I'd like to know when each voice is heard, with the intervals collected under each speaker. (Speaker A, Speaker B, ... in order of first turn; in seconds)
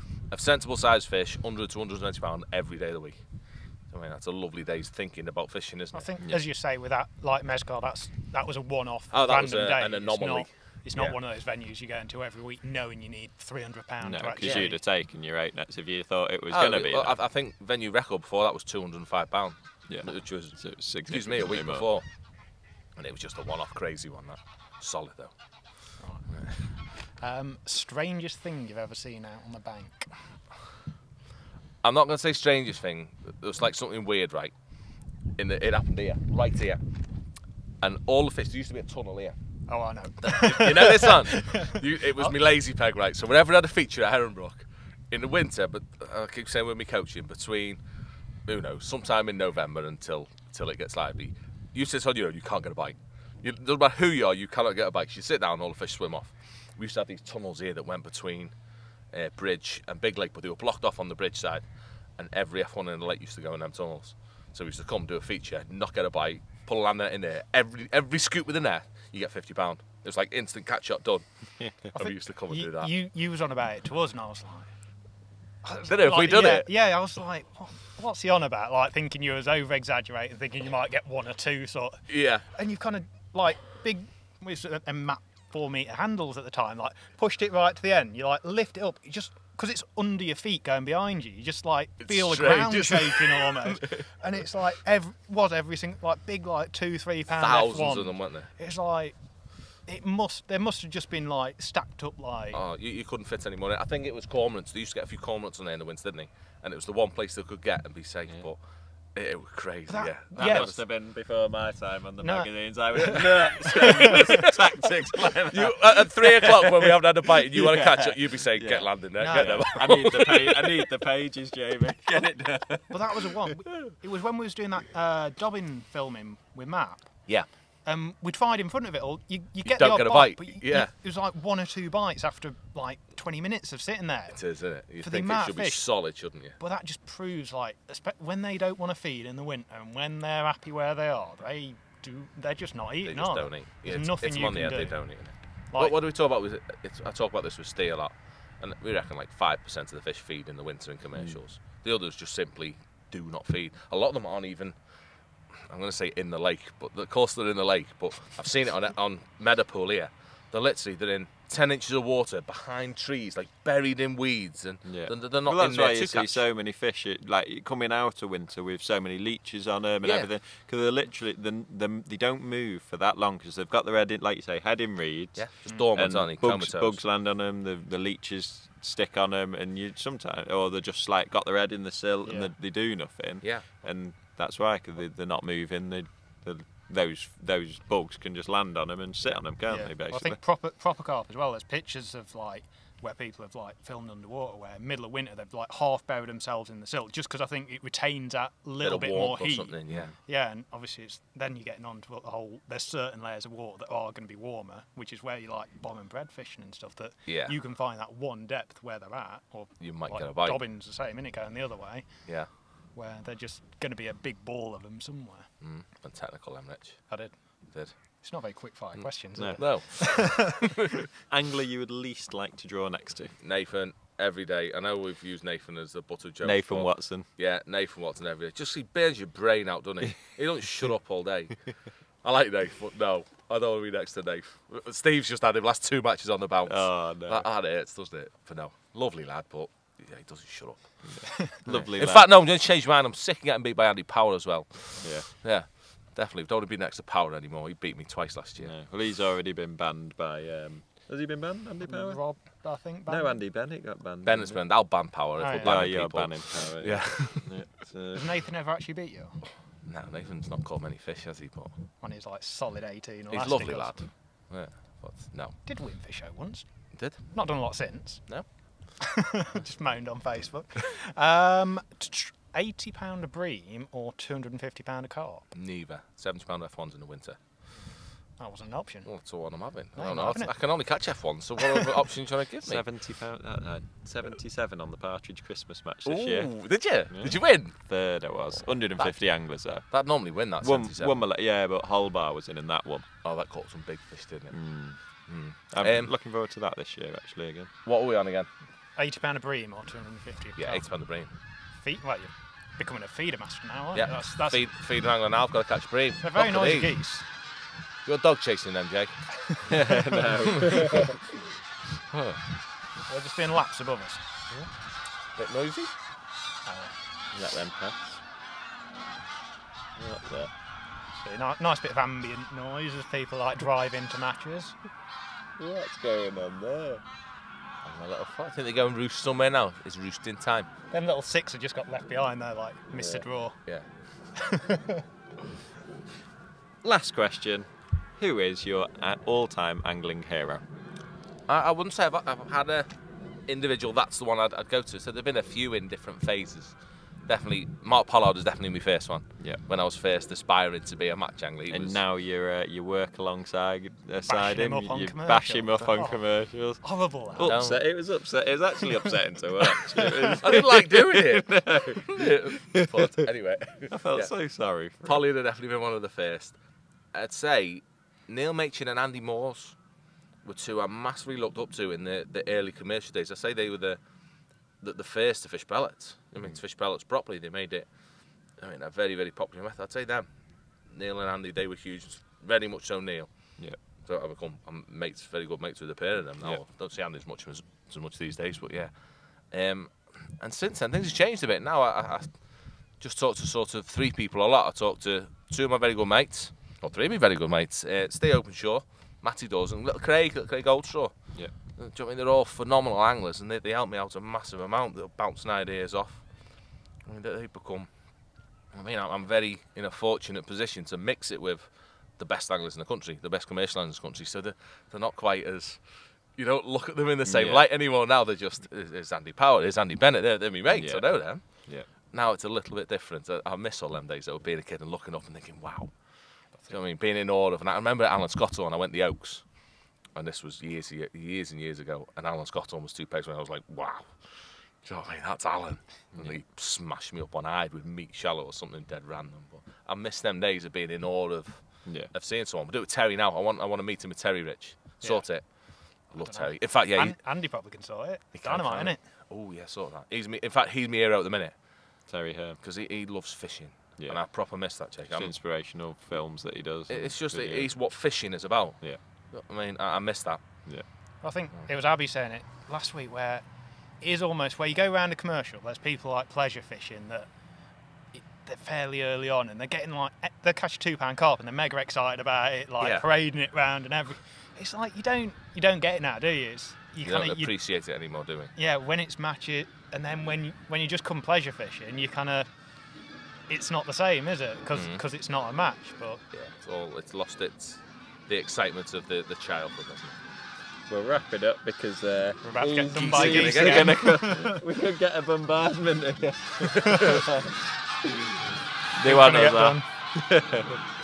Speaker A: 0.3-6.1, 9.1-11.2, 14.4-14.7, 16.5-26.7, 31.8-36.8, 37.8-39.4, 40.2-47.8, 48.5-72.9, 75.8-76.7, 82.1-82.5, 92.0-94.0, 97.3-98.5, 102.5-110.8, 112.9-114.4, 115.5-120.7, 129.6-130.9, 134.3-136.6, 143.0-154.8, 155.5-166.5, 170.0-170.3, 175.3-177.1, 183.4-183.7, 198.8-200.1, 207.2-207.6, 209.8-210.6, 212.2-212.5, 215.6-220.6, 223.4-248.7, 254.2-257.7, 259.8-261.9, 263.3-265.6, 266.9-268.6, 275.5-277.4, 279.0-282.9, 286.0-291.2, 293.2-296.1, 297.8-298.5, 300.6-301.4, 303.9-307.4, 308.0-309.4, 312.1-312.5, 315.2-315.9, 327.8-330.7, 333.6-333.9, 341.4-352.0, 357.4-357.9, 360.4-447.6, 448.3-452.1, 452.6-455.4, 456.9-460.9, 472.8-473.0, 477.0-478.5, 484.7-485.0, 486.3-490.2, 492.9-494.2
Speaker B: 5.9-14.8, 26.0-30.4, 39.7-42.3, 71.9-75.1, 75.6-102.6, 109.9-110.7, 112.2-113.2, 119.2-119.9, 122.9-146.0, 175.7-175.9, 182.2-183.1, 189.6-215.5, 217.1-220.6, 251.8-253.4, 255.4-255.8, 258.1-259.4, 262.0-264.1, 265.6-268.9, 269.5-275.5, 277.7-281.6, 298.9-304.8, 306.2-307.3, 313.0-314.3, 316.6-316.9, 321.1-324.8, 330.9-333.6, 334.3-335.0, 354.2-357.9, 426.5-426.8, 445.0-449.0, 461.2-477.7, 478.5-482.6, 483.5-486.2, 492.4-494.5, 499.0-499.9
Speaker C: 14.0-17.2, 19.9-21.9, 110.3-123.2, 151.1-151.4, 164.8-190.4, 199.9-200.2, 219.3-220.3, 221.3-223.4, 226.4-227.3, 236.7-237.5, 241.0-242.2, 245.0-245.3, 248.6-258.2, 282.6-293.1, 294.5-297.7, 309.7-311.1, 317.3-318.2, 319.9-320.5, 325.6-327.0, 332.9-333.2, 336.8-340.6, 351.7-362.2, 363.9-365.2, 417.2-417.7, 420.7-421.9, 436.1-436.4, 441.8-442.1, 452.1-452.6, 454.0-458.0, 490.9-497.2, 498.9-500.7